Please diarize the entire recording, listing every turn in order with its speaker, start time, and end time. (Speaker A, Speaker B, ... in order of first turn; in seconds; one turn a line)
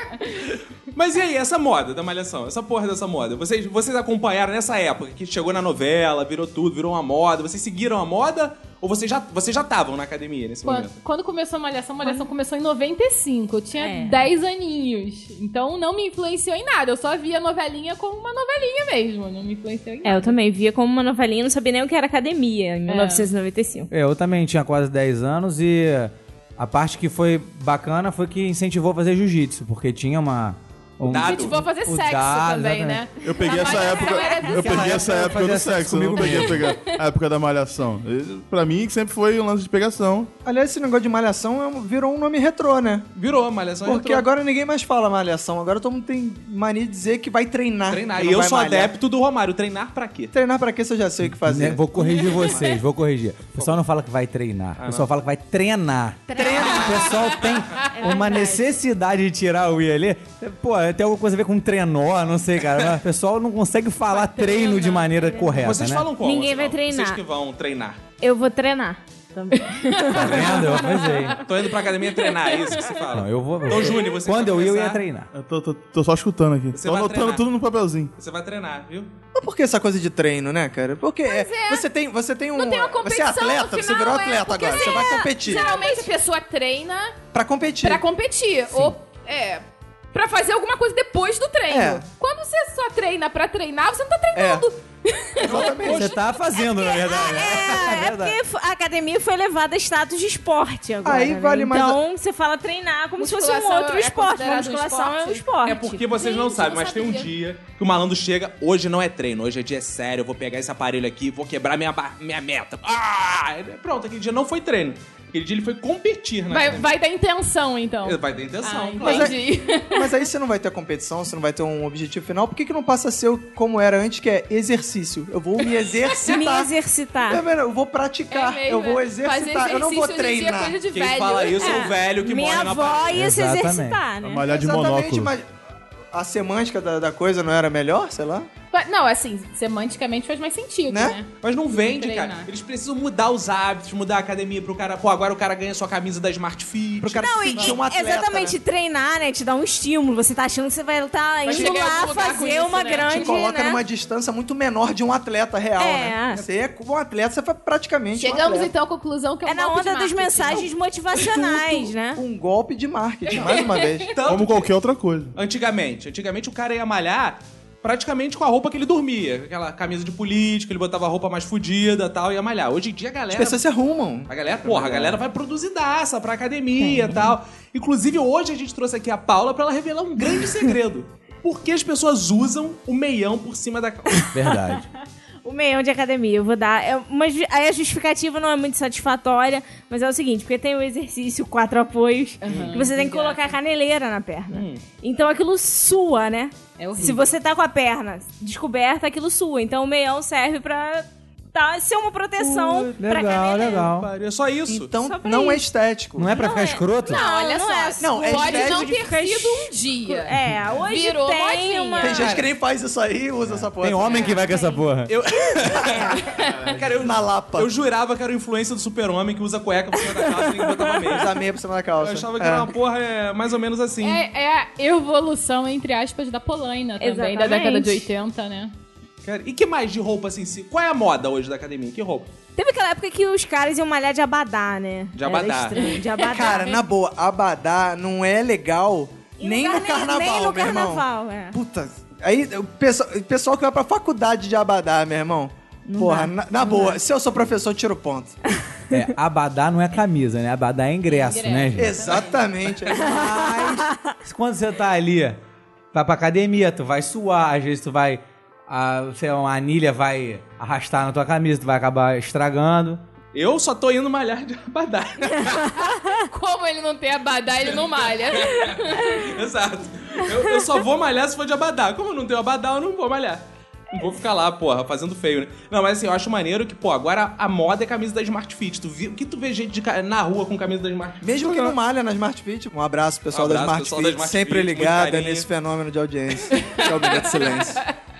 Speaker A: 0.9-11.0
Speaker B: 10.7-20.4
Speaker C: 12.0-12.3
Speaker C: 13.8-14.3
Speaker C: 20.0-23.9
Speaker B: 22.9-23.3
Speaker D: 23.9-33.0
Speaker A: 31.1-31.6
Speaker B: 31.1-34.9
Speaker E: 33.2-40.3
Speaker C: 33.5-34.7
Speaker D: 34.5-36.7
Speaker B: 36.6-37.0
Speaker F: 40.5-43.1
Speaker A: 43.1-44.3
Speaker F: 43.8-48.9
Speaker A: 47.9-50.4
Speaker F: 50.3-52.7
Speaker D: 51.3-66.1
Speaker C: 52.3-52.6
Speaker A: 54.8-55.1
Speaker C: 56.3-57.0
Speaker F: 56.4-56.8
Speaker C: 57.9-58.6
Speaker B: 64.4-65.0
Speaker C: 65.1-65.6
Speaker A: 65.6-68.0
Speaker C: 66.2-67.2
Speaker C: 68.2-70.8
Speaker B: 69.5-71.4
Speaker D: 70.1-71.4
Speaker A: 71.4-75.0
Speaker B: 72.4-72.7
Speaker D: 73.1-75.3
Speaker E: 75.3-78.1
Speaker A: 76.7-77.5
Speaker A: 78.2-79.1
Speaker F: 79.3-85.9
Speaker B: 81.2-81.9
Speaker B: 82.5-87.2
Speaker C: 84.9-85.9
Speaker F: 87.3-88.0
Speaker B: 87.8-96.1
Speaker F: 91.7-92.0
Speaker F: 94.3-94.7
Speaker F: 95.4-96.0
Speaker A: 95.5-96.0
Speaker D: 95.8-98.4
Speaker C: 96.7-106.0
Speaker F: 101.0-102.0
Speaker B: 103.2-107.3
Speaker A: 105.7-116.9
Speaker B: 116.5-120.1
Speaker A: 118.0-119.3
Speaker F: 119.0-126.7
Speaker B: 126.1-126.4
Speaker C: 126.2-127.4
Speaker F: 127.2-130.8
Speaker B: 128.3-131.8
Speaker A: 130.9-133.2
Speaker C: 131.6-134.4
Speaker D: 133.1-134.0
Speaker E: 134.2-135.3
Speaker F: 134.4-135.5
Speaker F: 136.1-138.5
Speaker B: 138.7-142.5
Speaker F: 140.9-141.2
Speaker A: 141.4-147.7
Speaker F: 147.0-148.6
Speaker C: 147.2-153.8
Speaker B: 151.4-153.3
Speaker F: 151.5-152.1
Speaker F: 153.1-158.7
Speaker C: 155.8-156.4
Speaker B: 158.1-160.7
Speaker C: 159.4-162.2
Speaker F: 161.1-164.1
Speaker B: 163.3-164.1
Speaker A: 164.1-164.7
Speaker E: 164.2-165.3
Speaker A: 165.3-173.6
Speaker F: 173.3-175.2
Speaker A: 174.3-184.3
Speaker C: 176.8-177.2
Speaker D: 184.3-184.9
Speaker C: 185.4-203.9
Speaker B: 192.4-193.5
Speaker A: 192.5-192.8
Speaker A: 194.5-194.8
Speaker B: 196.8-197.3
Speaker D: 202.4-204.1
Speaker A: 204.0-204.9
Speaker F: 204.7-206.4
Speaker C: 205.0-205.7
Speaker D: 206.2-207.2
Speaker C: 206.3-212.4
Speaker B: 207.1-212.4
Speaker F: 208.0-208.9
Speaker F: 212.0-214.4
Speaker D: 213.8-215.1
Speaker C: 214.0-214.8
Speaker A: 215.1-221.4
Speaker B: 216.2-216.8
Speaker F: 216.9-217.7
Speaker C: 220.3-220.9
Speaker F: 221.1-222.7
Speaker A: 222.0-224.2
Speaker B: 224.0-228.7
Speaker C: 227.0-228.1
Speaker A: 229.2-232.3
Speaker C: 232.6-236.8
Speaker A: 235.2-235.8
Speaker F: 236.3-248.4
Speaker C: 239.4-241.6
Speaker C: 245.9-246.9
Speaker D: 248.9-252.1
Speaker B: 251.1-252.5
Speaker F: 251.8-253.3
Speaker D: 252.9-255.4
Speaker D: 255.9-263.0
Speaker A: 263.3-265.7
Speaker B: 266.3-269.1
Speaker A: 268.3-281.8
Speaker F: 281.2-287.8
Speaker A: 283.3-285.5